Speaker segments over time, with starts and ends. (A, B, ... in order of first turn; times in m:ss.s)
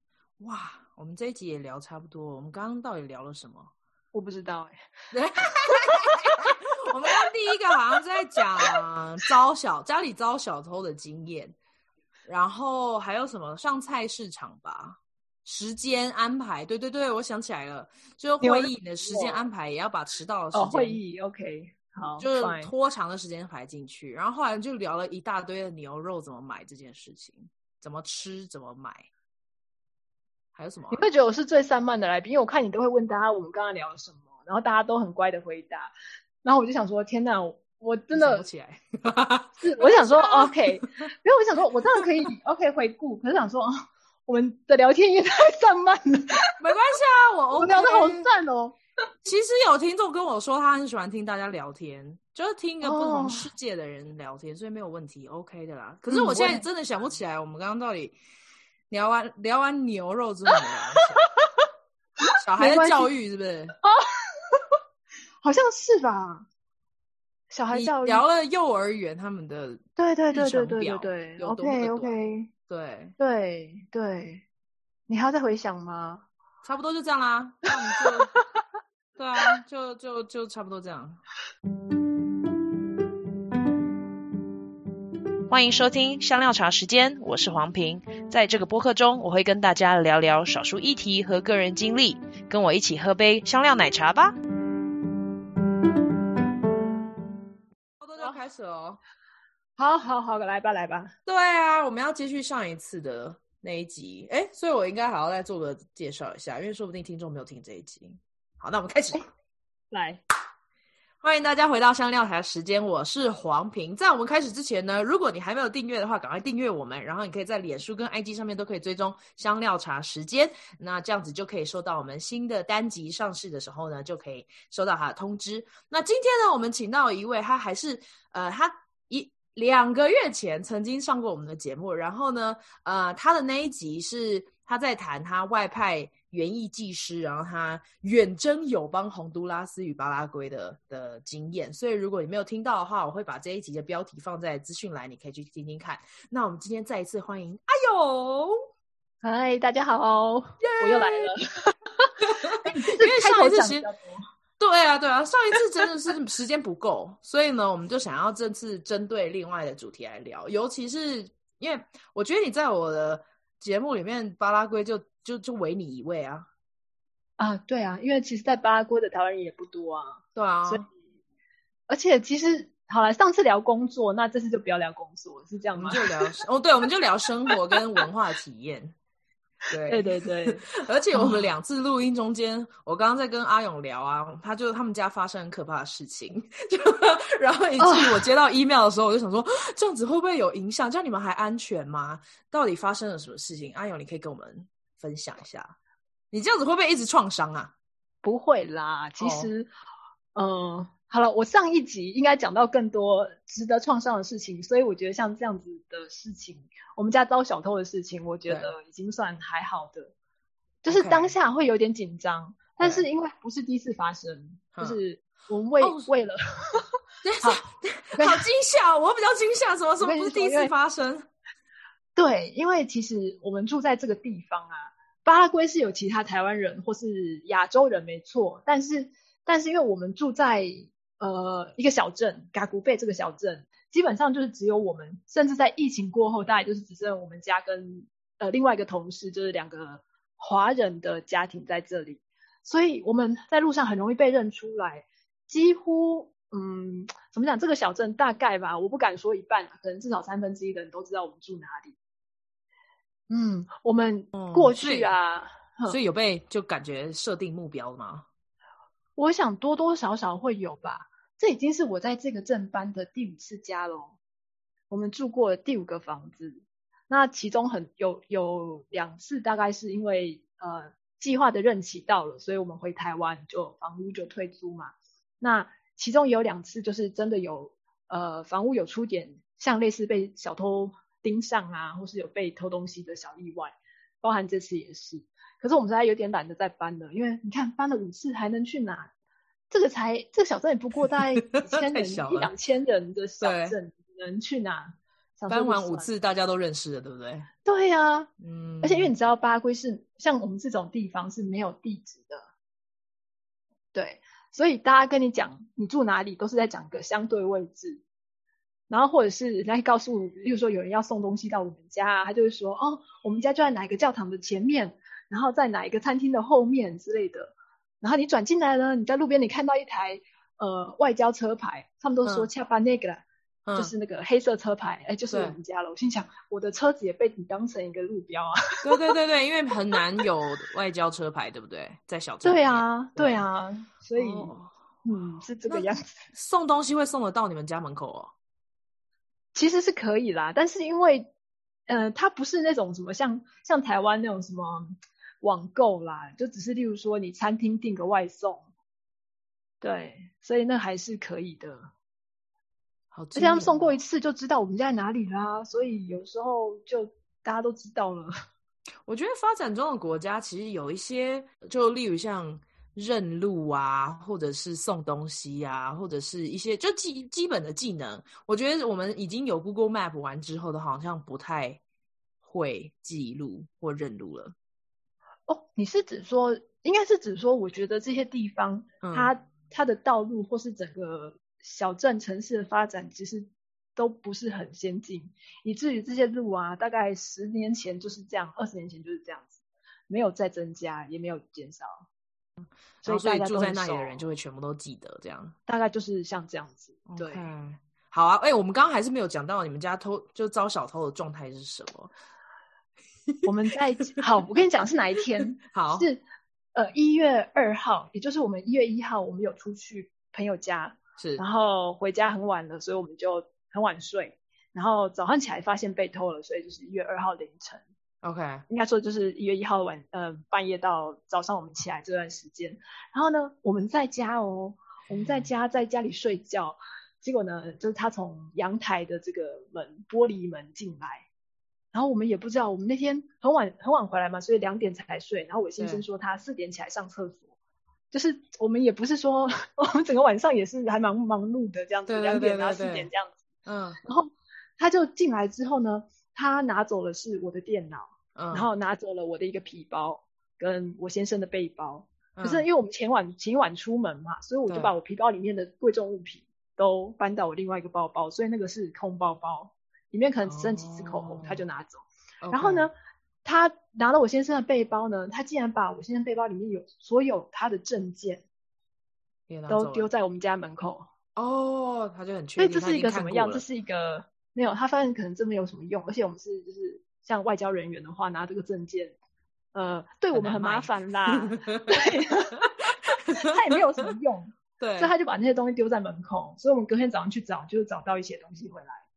0:00.4-0:03.7 A
0:04.1-0:04.9 B
0:05.1-0:11.6 A
0:12.2-0:21.0 A
0:18.4-0:19.4 B
0:20.5-0:22.7 B
0:22.2-0:29.1 A
0:30.6-0:31.0 A
0:30.9-0:35.9 B
0:36.4-0:38.5 B
0:38.1-0:41.1 A
0:39.6-0:43.7 B
0:44.3-0:46.5 B
0:46.6-0:48.3 A
0:47.6-0:48.8 B
0:49.2-0:58.2 A
0:52.8-0:53.5 B
0:56.1-0:56.6 B
0:58.9-1:01.3 A
1:02.4-1:03.8 A
1:02.6-1:03.1 B
1:03.8-1:04.8 B
1:05.4-1:06.5 B
1:07.5-1:08.2 B
1:07.7-1:12.2 A
1:10.0-1:12.5 B
1:12.7-1:13.2 A
1:13.2-1:14.4 B
1:15.1-1:16.3 B
1:16.6-1:18.3 A
1:19.2-1:21.2 A
1:25.5-1:34.4 C
1:38.0-1:39.0 A
1:39.8-1:41.1 B
1:41.3-1:49.3 A
1:49.9-1:50.2 B
1:51.2-2:28.5 A
2:29.2-2:32.1 B
2:30.6-2:31.3 A
2:32.2-2:33.9 A
2:32.6-2:34.2 B
2:34.6-2:46.5 A
2:47.4-2:50.9 B
2:50.4-2:50.9 A
2:51.9-2:56.1 B
2:55.8-2:59.0 A
2:59.7-3:15.8 A
2:59.9-3:01.5 B
3:07.8-3:08.3 B
3:16.3-3:17.7 A
3:18.2-3:19.7 B
3:19.2-3:19.5 A
3:20.4-3:30.1 B
3:28.5-3:28.7 A
3:30.8-3:36.8 B
3:30.9-3:31.3 A
3:32.8-3:33.1 A
3:34.7-3:35.0 A
3:35.8-3:36.1 A
3:37.2-3:41.3 A
3:38.2-3:38.5 B
3:40.0-3:40.7 B
3:42.2-4:12.0 B
4:13.3-4:16.0 B
4:14.3-4:15.2 A
4:15.9-4:18.3 A
4:19.2-4:24.2 B
4:24.9-4:49.1 B
4:49.7-4:56.1 B
4:51.4-4:52.5 A
4:53.4-4:53.8 A
4:55.5-4:57.5 A
4:57.6-4:58.3 B
4:58.4-4:59.1 A
4:58.8-5:02.5 B
5:03.9-5:08.0 B
5:08.9-5:29.0 B
5:23.7-5:23.9 A
5:25.3-5:25.6 A
5:28.8-5:33.4 A
5:30.0-5:30.2 B
5:32.4-5:36.2 B
5:34.2-5:34.8 A
5:35.7-5:38.3 A
5:39.6-5:41.3 B
5:41.9-5:48.7 B
5:49.8-5:51.9 B
5:53.1-5:54.0 A
5:53.4-5:58.3 B
5:59.1-6:11.8 A
6:12.4-6:14.6 A
6:15.5-6:32.1 B
6:19.0-6:19.3 A
6:33.0-6:35.6 A
6:33.0-6:34.2 B
6:35.7-6:37.5 B
6:37.1-6:42.1 A
6:43.4-6:46.2 B
6:45.6-6:46.1 A
6:46.7-6:57.8 B
6:51.2-6:51.4 A
6:58.2-6:58.6 A
6:58.7-7:11.3 B
7:05.1-7:05.5 A
7:11.9-7:17.5 B
7:15.8-7:16.0 A
7:18.1-7:23.4 B
7:22.1-7:23.1 A
7:23.7-7:24.0 A
7:24.0-7:42.9 B
7:28.4-7:28.7 A
7:32.4-7:32.7 A
7:34.7-7:34.9 A
7:40.4-7:41.6 A
7:42.4-7:42.9 A
7:43.4-7:48.4 B
7:49.5-7:50.1 A
7:49.7-7:51.1 B
7:51.4-7:53.6 A
7:52.6-7:59.2 B
7:59.7-8:02.6 B
8:00.3-8:02.0 A
8:02.9-8:03.5 A
8:03.3-8:09.0 B
8:04.8-8:05.1 A